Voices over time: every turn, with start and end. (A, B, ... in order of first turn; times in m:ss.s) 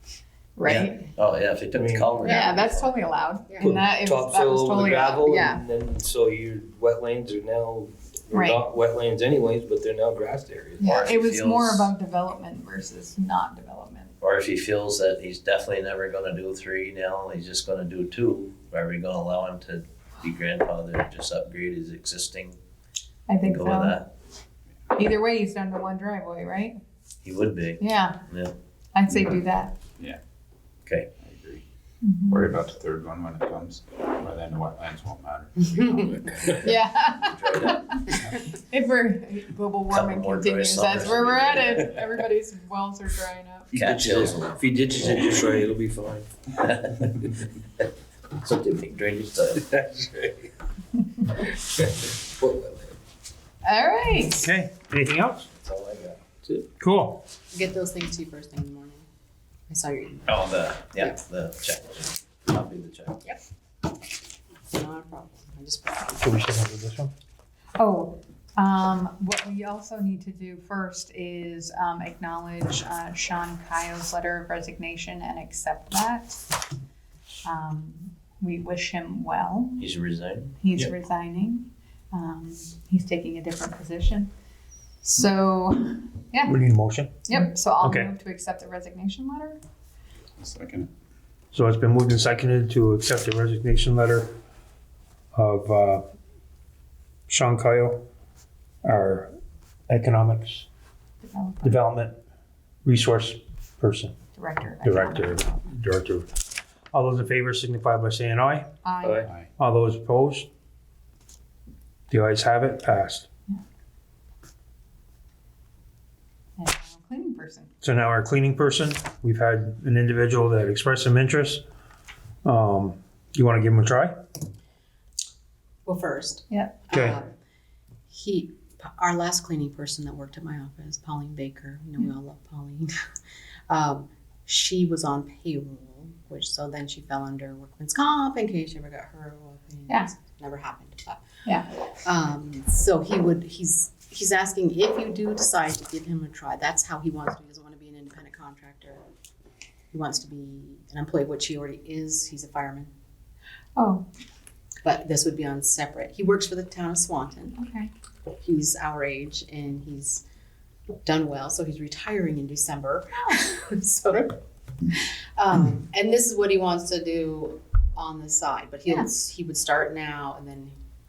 0:00.6-0:01.1 A
0:00.6-0:03.0 B
0:01.7-0:02.2 C
0:02.2-0:05.6 A
0:02.2-0:02.5 D
0:03.6-0:10.9 C
0:08.3-0:08.6 A
0:10.8-0:14.1 A
0:10.8-0:11.9 B
0:14.2-0:22.6 B
0:23.3-0:24.0 A
0:23.4-0:24.1 B
0:24.9-0:26.8 A
0:27.2-0:28.5 B
0:27.8-0:28.2 A
0:28.9-0:29.7 A
0:31.2-0:31.6 E
0:32.0-0:32.6 A
0:32.3-0:35.9 E
0:35.7-0:36.1 D
0:36.5-0:43.7 A
0:37.2-0:37.9 B
0:39.9-0:41.9 B
0:43.7-0:45.3 B
0:43.7-0:46.3 C
0:46.6-0:47.1 B
0:48.4-0:49.7 B
0:49.6-0:50.5 C
0:51.6-0:52.9 C
0:53.6-0:54.5 A
0:54.4-0:55.5 F
0:55.5-0:56.2 B
0:56.8-0:57.2 F
0:57.5-0:59.0 D
0:59.7-1:01.2 D
1:00.3-1:03.2 B
1:04.7-1:06.2 D
1:06.2-1:07.1 F
1:07.8-1:16.4 A
1:17.4-1:19.9 A
1:19.8-1:20.6 B
1:20.6-1:24.3 A
1:25.0-1:26.6 A
1:26.5-1:28.1 F
1:27.2-1:29.6 A
1:30.4-1:30.9 E
1:31.5-1:34.4 F
1:35.3-1:36.0 F
1:37.3-1:38.0 F
1:38.8-1:39.3 F
1:39.9-1:40.7 F
1:41.2-1:41.8 A
1:41.6-1:42.2 F
1:42.8-1:44.1 F
1:44.3-1:45.6 A
1:44.8-1:46.3 F
1:46.9-1:48.7 F
1:48.8-1:49.3 A
1:49.0-1:49.3 C
1:49.6-1:50.5 F
1:52.1-1:53.3 F
1:56.6-1:57.7 A
1:57.8-2:01.6 F
2:02.4-2:04.2 F
2:05.8-2:07.3 D
2:06.5-2:06.8 A
2:06.9-2:07.2 F
2:08.1-2:12.9 D
2:13.7-2:21.2 D
2:22.0-2:29.0 D
2:29.9-2:32.9 D
2:33.8-2:34.0 A
2:34.8-2:37.6 D
2:37.6-2:37.9 A
2:38.3-2:40.2 D
2:41.0-2:44.4 D
2:45.4-2:50.7 D